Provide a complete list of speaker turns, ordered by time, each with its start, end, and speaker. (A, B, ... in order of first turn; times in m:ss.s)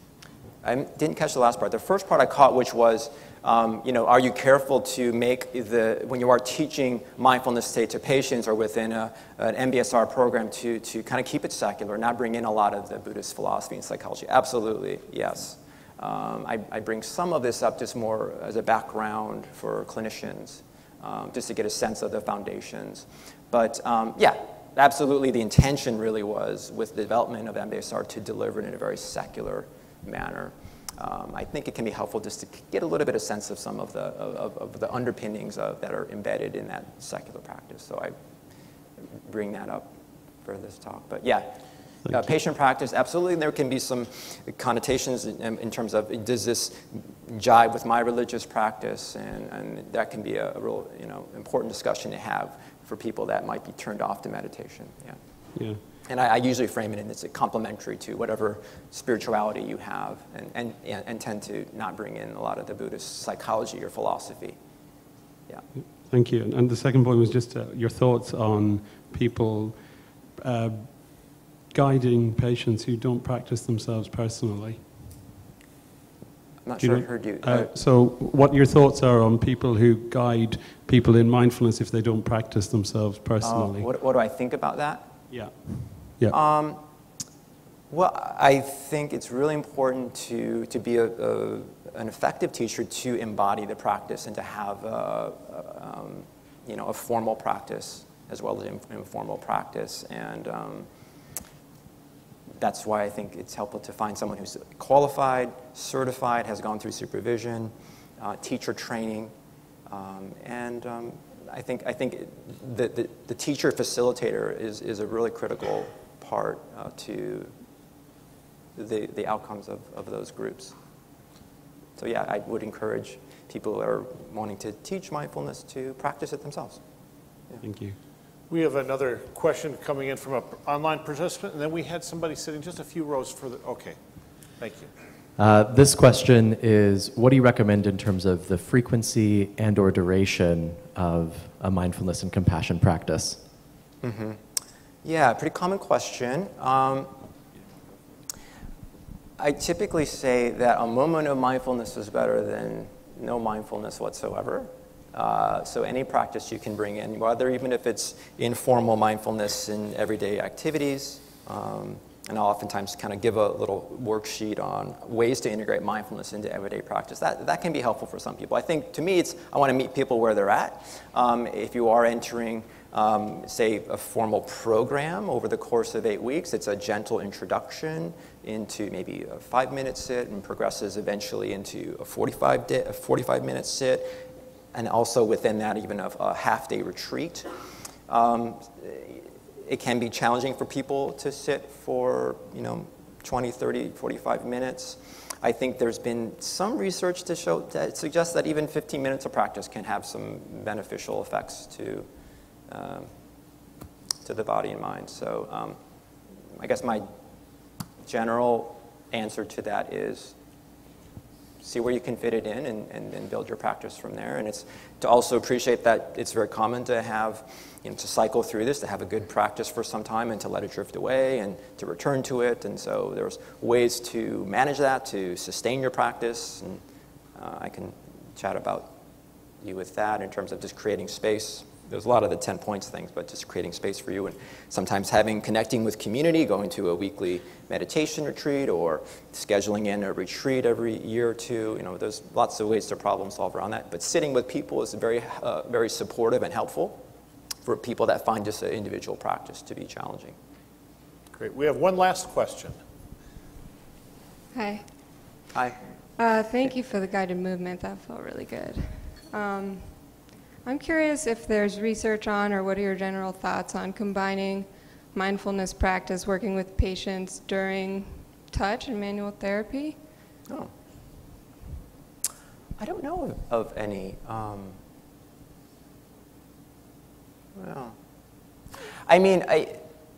0:00.6-0:38.2 A
0:39.1-0:39.9 A
0:40.4-0:55.2 A
0:55.5-0:55.8 B
0:56.0-1:04.6 A
1:06.0-1:09.8 B
1:10.4-1:15.0 B
1:16.6-1:17.7 A
1:16.8-1:23.9 B
1:23.4-1:25.1 A
1:25.3-1:26.4 B
1:26.3-1:26.8 A
1:27.9-1:40.9 A
1:42.6-1:49.3 A
1:49.9-1:57.5 A
1:58.7-2:00.8 A
2:02.0-2:06.8 A
2:07.6-2:08.0 B
2:08.5-2:14.9 C
2:15.4-2:23.4 D
2:24.0-2:24.4 A
2:25.0-2:27.2 A
2:29.4-3:04.2 A
3:04.7-3:07.5 A
3:08.1-3:22.1 A
3:22.7-3:23.1 A
3:24.2-3:25.8 A
3:26.5-3:27.1 A
3:28.0-3:30.4 A
3:31.6-3:46.8 A
3:47.3-3:49.0 A
3:49.6-4:07.0 A
4:07.6-4:10.4 A
4:11.3-4:12.8 C
4:14.5-4:14.8 E
4:16.2-4:20.0 E
4:20.6-4:30.0 E
4:32.8-4:34.8 A
4:37.5-4:38.0 A
4:39.0-4:39.8 A